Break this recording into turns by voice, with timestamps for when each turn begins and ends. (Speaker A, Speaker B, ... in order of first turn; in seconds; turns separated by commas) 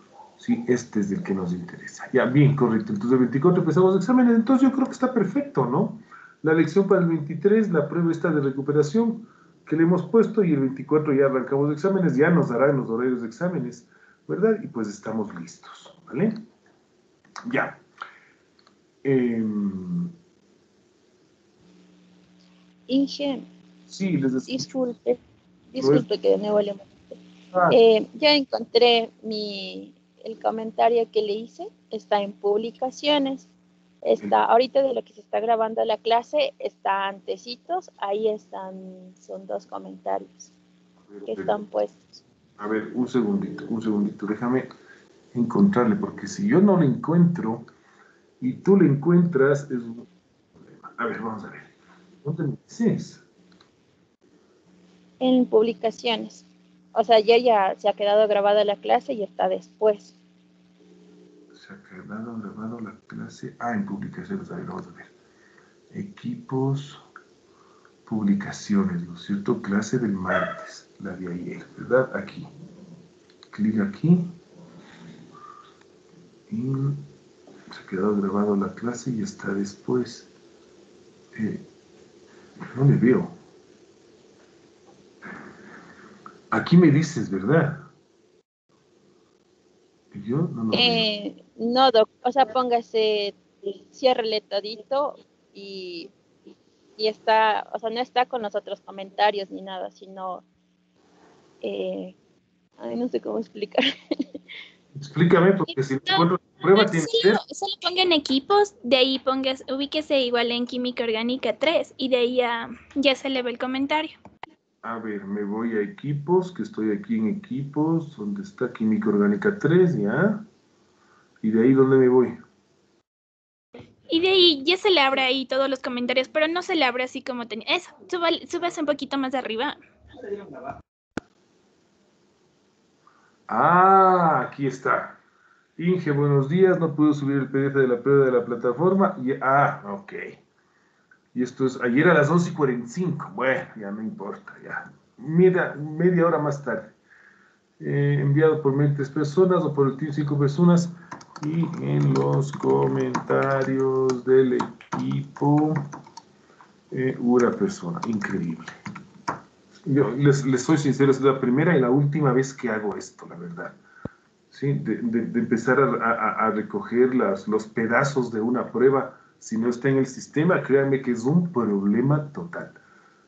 Speaker A: 0.4-16.4, Speaker A: 17.4-17.8, Speaker A: 19.0-20.1, Speaker B: 22.9-23.5, Speaker A: 23.9-24.7, Speaker B: 24.5-25.2, Speaker B: 25.7-33.5, Speaker A: 25.8-26.1, Speaker B: 34.0-40.5, Speaker A: 41.1-41.6, Speaker B: 41.2-42.2, Speaker A: 42.6-44.7, Speaker A: 45.3-47.7, Speaker A: 48.4-50.1, Speaker A: 50.8-51.7, Speaker A: 52.2-53.2, Speaker B: 55.2-60.1, Speaker A: 61.5-65.1, Speaker A: 65.9-67.0, Speaker A: 68.0-72.5, Speaker A: 73.5-74.3, Speaker A: 76.5-77.1, Speaker A: 77.7-80.3, Speaker A: 81.3-81.6, Speaker A: 82.7-83.3, Speaker A: 86.5-87.9, Speaker A: 90.1-91.0, Speaker B: 90.7-96.1, Speaker B: 97.0-100.4, Speaker B: 101.6-102.1, Speaker B: 102.8-104.2, Speaker A: 105.0-107.4, Speaker C: 106.7-114.2, Speaker A: 114.8-120.5, Speaker A: 121.4-122.4, Speaker C: 124.1-129.8, Speaker A: 133.5-135.2, Speaker A: 135.8-140.4, Speaker A: 141.3-146.9, Speaker A: 147.8-155.8, Speaker A: 156.9-158.7, Speaker A: 159.8-163.7, Speaker A: 164.5-172.8